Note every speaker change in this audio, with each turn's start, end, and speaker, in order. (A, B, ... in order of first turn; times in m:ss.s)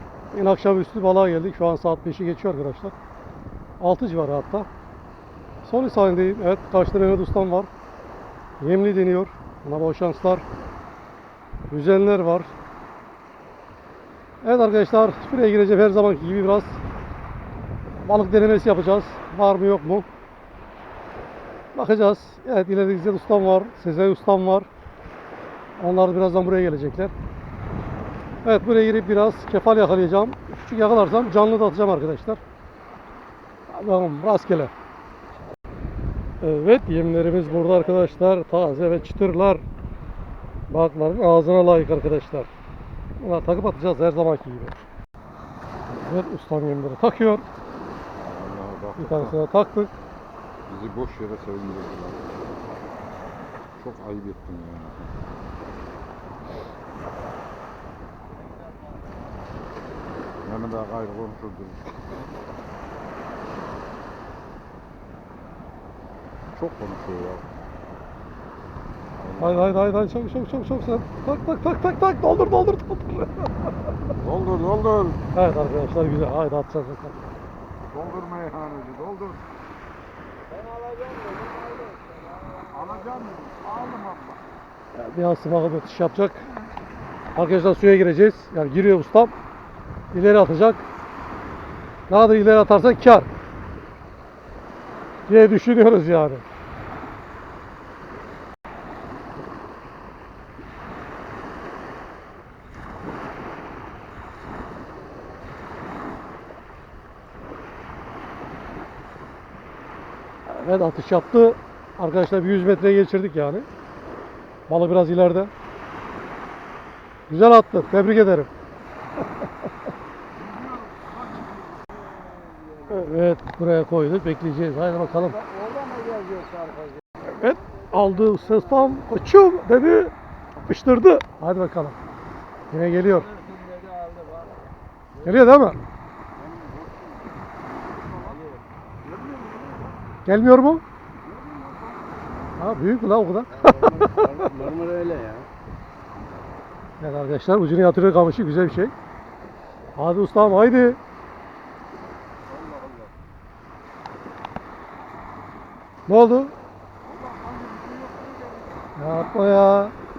0:00.3-0:02.9 A
0:03.8-0:04.7 A
0:05.6-0:07.7 A
0:08.6-0:10.4 A
0:11.7-0:12.5 A
0:14.4-0:16.8 A
0:18.0-0:20.1 A
0:21.8-0:24.7 A
0:25.8-0:27.1 A
0:28.4-0:32.4 A
0:33.7-0:34.7 A
0:36.4-0:39.6 A
0:40.7-0:42.5 A
0:43.2-0:44.8 A
0:46.0-0:47.4 A
0:48.2-0:49.4 B
0:49.0-0:49.9 A
0:50.7-0:52.6 B
0:53.8-0:55.1 B
1:00.4-1:02.0 B
1:06.6-1:07.4 B
1:09.2-1:09.7 B
1:09.4-1:13.7 A
1:14.2-1:15.2 B
1:15.3-1:17.2 A
1:17.9-1:19.4 B
1:20.5-1:23.0 C
1:22.7-1:24.4 B
1:24.9-1:26.5 A
1:27.4-1:29.3 A
1:30.1-1:30.9 A
1:32.1-1:33.3 A
1:35.3-1:36.4 A
1:50.5-1:53.7 A
1:54.7-1:55.5 A
1:57.3-1:58.5 A
2:00.4-2:01.9 B
2:02.1-2:03.0 C
2:02.9-2:05.4 A
2:05.4-2:06.2 B
2:05.5-2:06.9 C
2:07.2-2:12.0 A
2:08.0-2:08.6 C
2:12.7-2:13.3 A
2:13.3-2:14.6 C
2:15.2-2:15.8 A
2:16.3-2:18.4 B
2:18.2-2:18.6 C
2:19.0-2:20.0 B
2:20.3-2:20.8 A
2:21.2-2:22.2 B
2:22.6-2:24.5 A
2:23.6-2:25.5 C
2:27.0-2:28.9 A
2:30.0-2:31.0 A
2:32.5-2:33.1 B
2:36.1-2:36.6 A
2:37.0-2:38.8 B
2:39.0-2:39.9 A